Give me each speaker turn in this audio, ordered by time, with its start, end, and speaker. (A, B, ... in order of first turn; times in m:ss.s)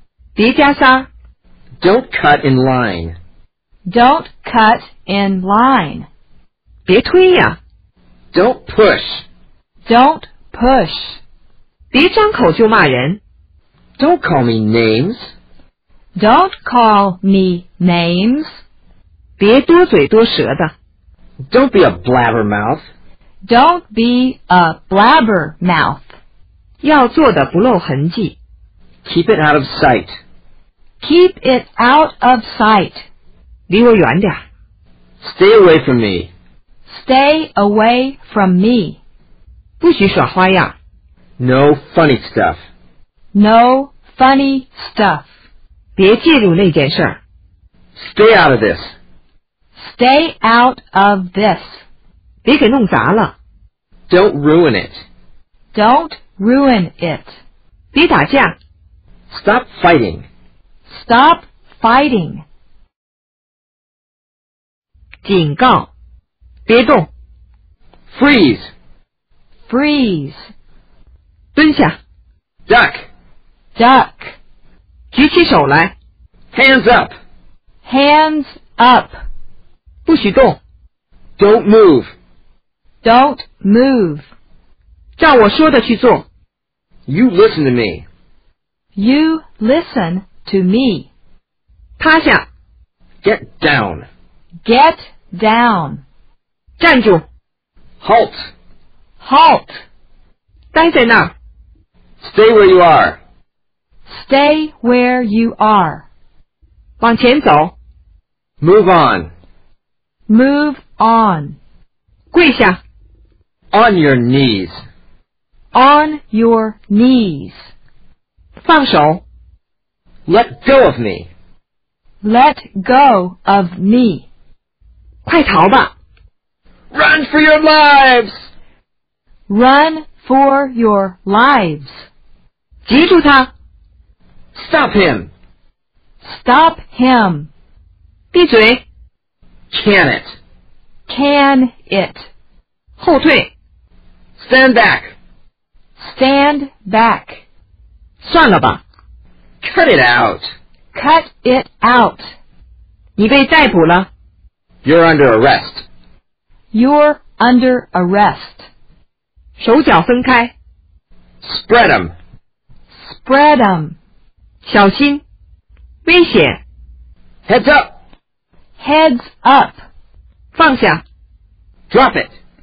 0:00.4-0:01.1 A
0:01.8-0:03.2 B
0:03.9-0:06.1 C
0:06.8-0:07.6 A
0:08.3-0:09.2 B
0:09.8-0:11.2 C
0:11.9-0:13.2 A
0:14.0-0:15.3 B
0:16.2-0:18.6 C
0:19.4-0:20.7 A
0:21.5-0:22.8 B
0:23.4-0:26.0 C
0:26.8-0:28.4 A
0:29.0-0:30.1 B
0:31.0-0:33.0 C
0:33.7-0:34.4 A
0:35.2-0:36.3 B
0:36.9-0:39.0 C
0:39.8-0:40.7 A
0:41.4-0:42.6 B
0:43.3-0:45.3 C
0:46.0-0:47.2 A
0:48.0-0:48.9 B
0:49.8-0:51.8 C
0:52.4-0:53.3 A
0:54.1-0:55.0 B
0:55.7-0:57.4 C
0:57.9-0:58.5 A
0:59.3-1:00.3 B
1:00.9-1:02.4 C
1:05.2-1:05.9 A
1:06.6-1:07.1 A
1:08.1-1:08.7 B
1:09.7-1:10.5 C
1:11.5-1:11.9 A
1:12.7-1:13.1 B
1:13.8-1:14.3 C
1:15.1-1:15.9 A
1:16.5-1:17.1 B
1:17.8-1:19.1 C
1:20.0-1:20.6 A
1:21.4-1:22.1 B
1:23.0-1:24.2 C
1:25.2-1:26.2 A
1:27.1-1:28.0 B
1:29.0-1:31.1 C
1:32.0-1:32.4 A
1:33.2-1:34.0 B
1:34.6-1:36.0 C
1:36.8-1:37.2 A
1:38.0-1:38.4 B
1:39.2-1:39.8 C
1:40.7-1:41.3 A
1:42.2-1:43.2 B
1:44.1-1:46.0 C
1:47.0-1:47.7 A
1:48.6-1:49.3 B
1:50.3-1:51.6 C
1:52.3-1:52.8 A
1:53.7-1:54.8 B
1:55.7-1:57.7 C
1:58.6-1:59.2 A
2:00.3-2:01.3 B
2:02.2-2:04.2 C
2:05.2-2:05.9 A
2:06.9-2:08.3 B
2:09.5-2:12.0 C
2:12.8-2:13.5 A
2:14.5-2:15.3 B
2:16.2-2:17.5 C
2:18.3-2:18.8 A
2:19.7-2:20.4 B
2:21.1-2:22.3 C
2:23.0-2:23.5 A
2:24.4-2:25.1 B
2:26.0-2:27.4 C
2:28.2-2:28.8 A
2:29.6-2:30.4 B
2:30.9-2:32.2 C
2:33.2-2:34.1 A
2:34.8-2:35.8 B
2:36.7-2:38.7 C
2:39.6-2:40.5 A
2:41.4-2:42.1 B
2:42.9-2:44.0 C
2:44.6-2:45.2 A
2:46.0-2:46.6 A
2:47.5-2:47.9 B
2:48.8-2:49.8 C
2:50.5-2:51.0 A
2:51.9-2:52.3 B